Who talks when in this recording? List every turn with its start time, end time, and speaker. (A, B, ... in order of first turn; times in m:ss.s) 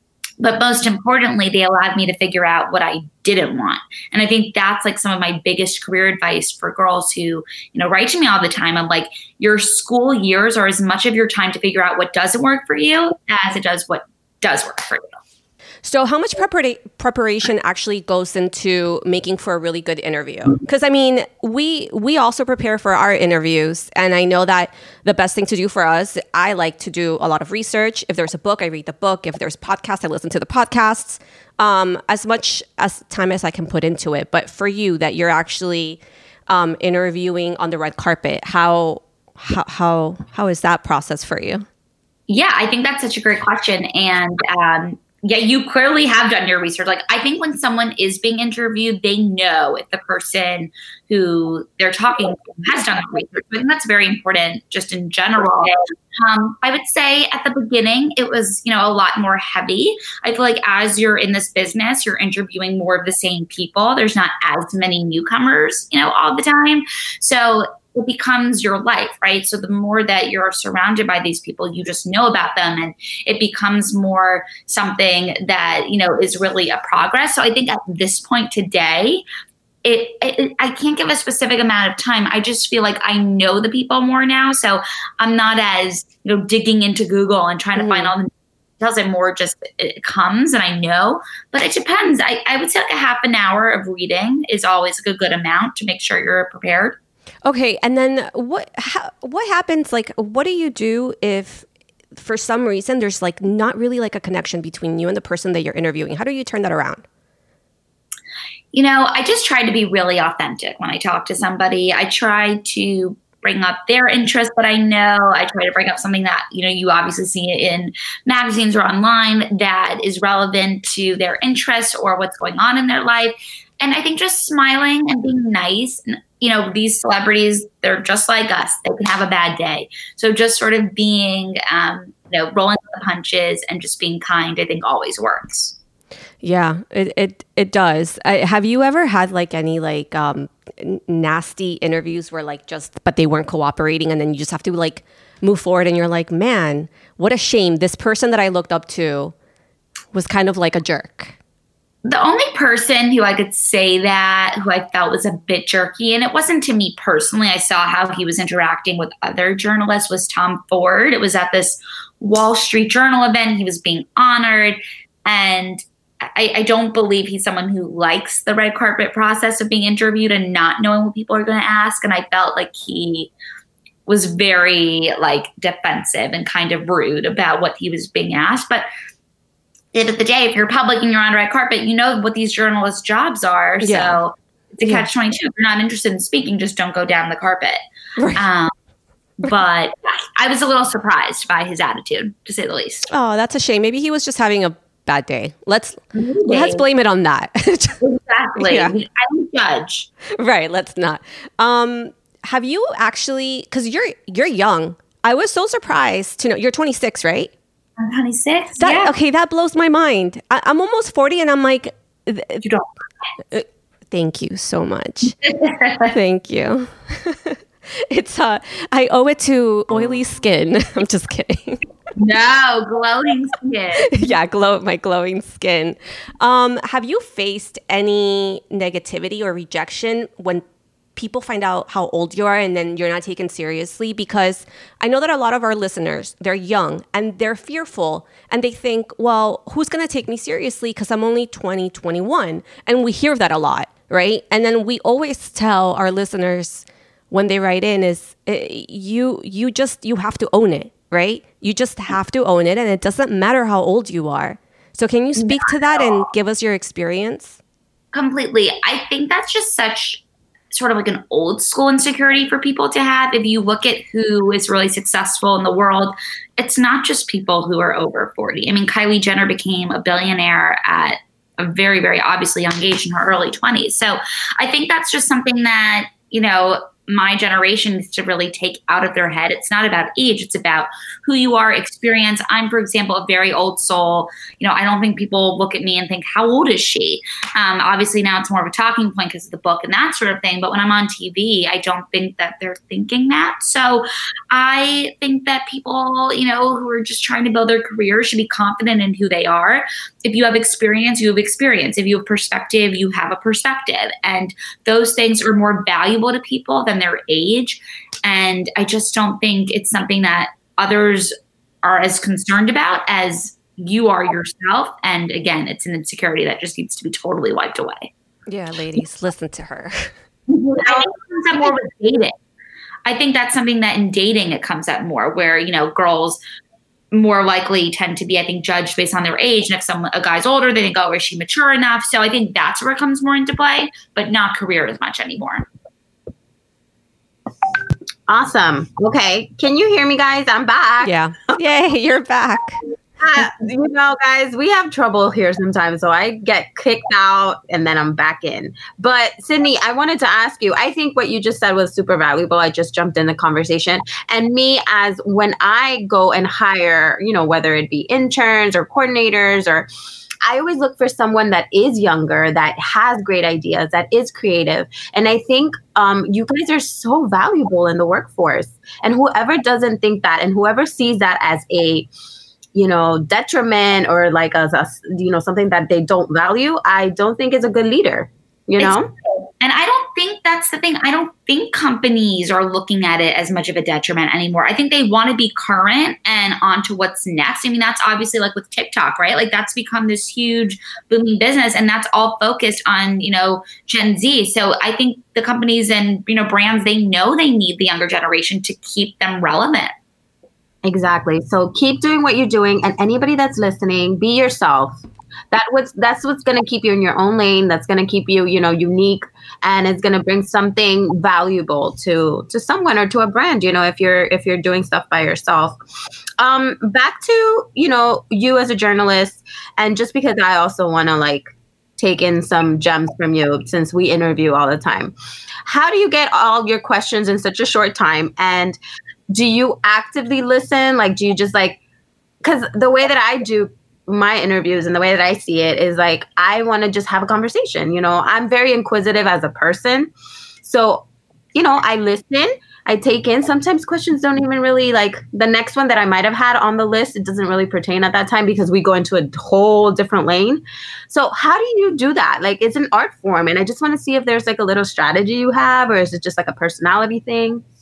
0:00.4-0:15.0 A
0:15.8-0:41.7 B
0:42.3-1:19.2 A
1:19.8-1:37.0 A
1:27.8-1:28.1 B
1:37.4-1:47.0 B
1:48.7-2:15.8 A
2:16.4-2:29.3 B
2:30.1-2:31.4 B
2:32.0-2:53.3 A
2:54.1-2:58.9 A
2:59.9-3:07.8 A
3:03.8-3:04.2 B
3:08.2-3:08.4 B
3:08.4-3:08.7 A
3:09.4-3:13.1 A
3:13.1-3:18.0 B
3:16.2-3:16.8 A
3:18.0-3:20.1 A
3:18.6-3:19.0 B
3:20.4-3:27.5 B
3:28.0-3:29.1 A
3:28.8-3:32.7 B
3:33.5-3:35.4 B
3:35.4-3:36.1 A
3:36.1-3:41.8 B
3:42.2-3:44.3 A
3:44.1-3:50.6 B
3:51.2-4:17.6 B
4:15.4-4:16.0 A
4:18.1-5:18.1 A
5:18.5-5:20.1 B
5:20.6-5:21.1 C
5:20.8-5:22.3 A
5:23.0-5:26.4 A
5:27.1-5:35.6 A
5:38.3-5:41.1 C
5:41.0-5:42.8 B
5:43.2-5:59.9 C
6:00.4-6:12.1 C
6:12.8-6:19.1 C
6:19.6-6:39.9 A
6:40.8-6:55.8 C
6:56.4-7:05.1 C
7:05.6-7:08.8 C
7:09.3-7:11.8 C
7:12.4-7:20.1 C
7:20.6-7:37.6 C